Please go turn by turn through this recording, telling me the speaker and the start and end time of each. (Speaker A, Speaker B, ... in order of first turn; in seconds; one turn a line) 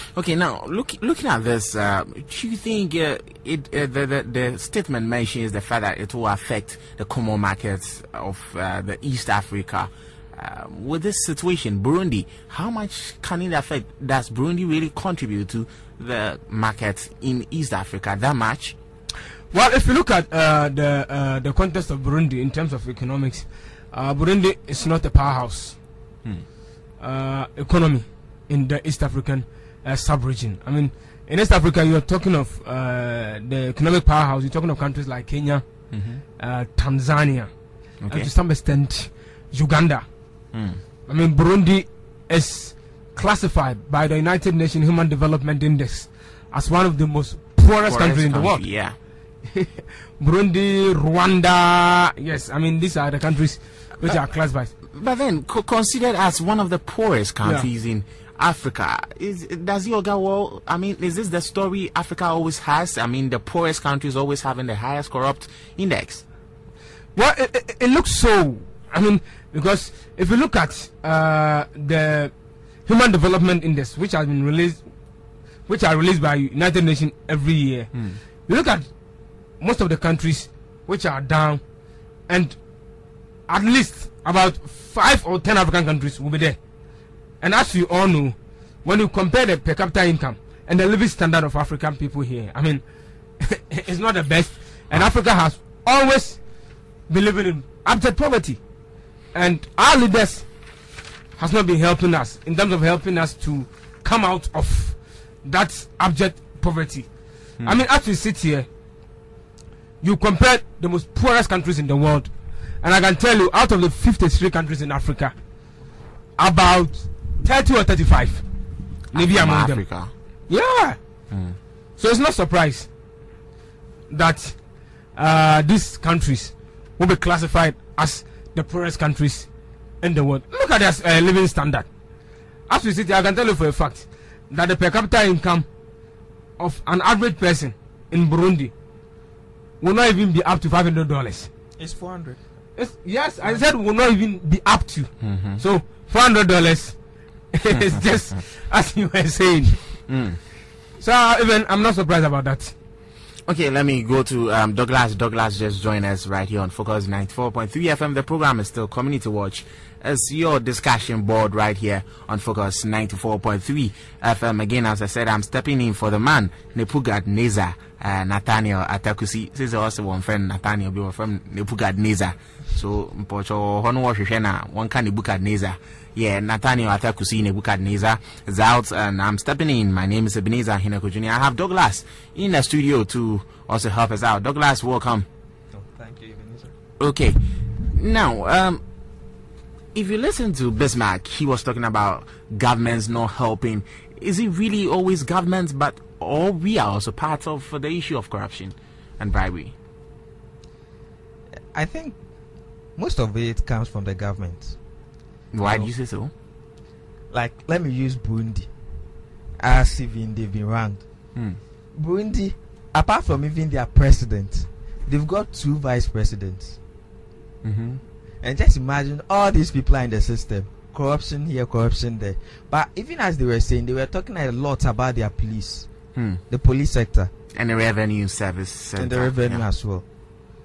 Speaker A: 0.1-18.8
Speaker B: 19.5-25.8
Speaker B: 27.0-35.6
Speaker A: 35.9-36.2
Speaker B: 36.4-37.5
Speaker A: 38.0-38.3
Speaker B: 38.1-40.0
Speaker A: 40.5-40.8
Speaker B: 41.1-48.7
Speaker A: 47.8-49.0
Speaker B: 49.5-54.7
Speaker A: 54.9-66.2
Speaker B: 57.4-57.7
Speaker B: 67.2-72.3
Speaker B: 72.9-74.8
Speaker B: 75.7-78.9
Speaker A: 77.9-78.2
Speaker B: 79.6-81.6
Speaker B: 82.3-82.6
Speaker B: 83.5-86.6
Speaker B: 87.4-92.8
Speaker B: 93.4-96.4
Speaker B: 97.1-98.6
Speaker B: 99.3-100.5
Speaker B: 101.4-107.1
Speaker B: 107.6-108.7
Speaker B: 110.0-115.3
Speaker B: 116.4-118.5
Speaker B: 119.1-119.8
Speaker A: 119.1-120.1
Speaker B: 120.5-121.0
Speaker A: 121.3-121.6
Speaker B: 122.0-122.9
Speaker B: 124.1-124.6
Speaker B: 125.2-129.5
Speaker B: 130.0-131.9
Speaker B: 132.7-135.7
Speaker B: 136.6-138.7
Speaker B: 139.8-141.5
Speaker C: 141.8-142.4
Speaker B: 142.8-147.0
Speaker A: 145.2-145.6
Speaker B: 147.5-149.8
Speaker A: 150.1-150.4
Speaker B: 151.0-152.7
Speaker A: 153.5-185.3
Speaker C: 185.7-186.7
Speaker A: 187.0-188.8
Speaker A: 189.9-199.7
Speaker C: 201.7-202.2
Speaker C: 203.0-204.8
Speaker A: 205.5-206.3
Speaker C: 205.7-205.9
Speaker C: 207.3-208.7
Speaker C: 209.6-211.0
Speaker C: 211.9-216.8
Speaker A: 217.6-218.0
Speaker C: 218.4-225.9
Speaker A: 226.2-226.4
Speaker C: 226.5-227.3
Speaker A: 227.5-229.7
Speaker C: 229.0-230.0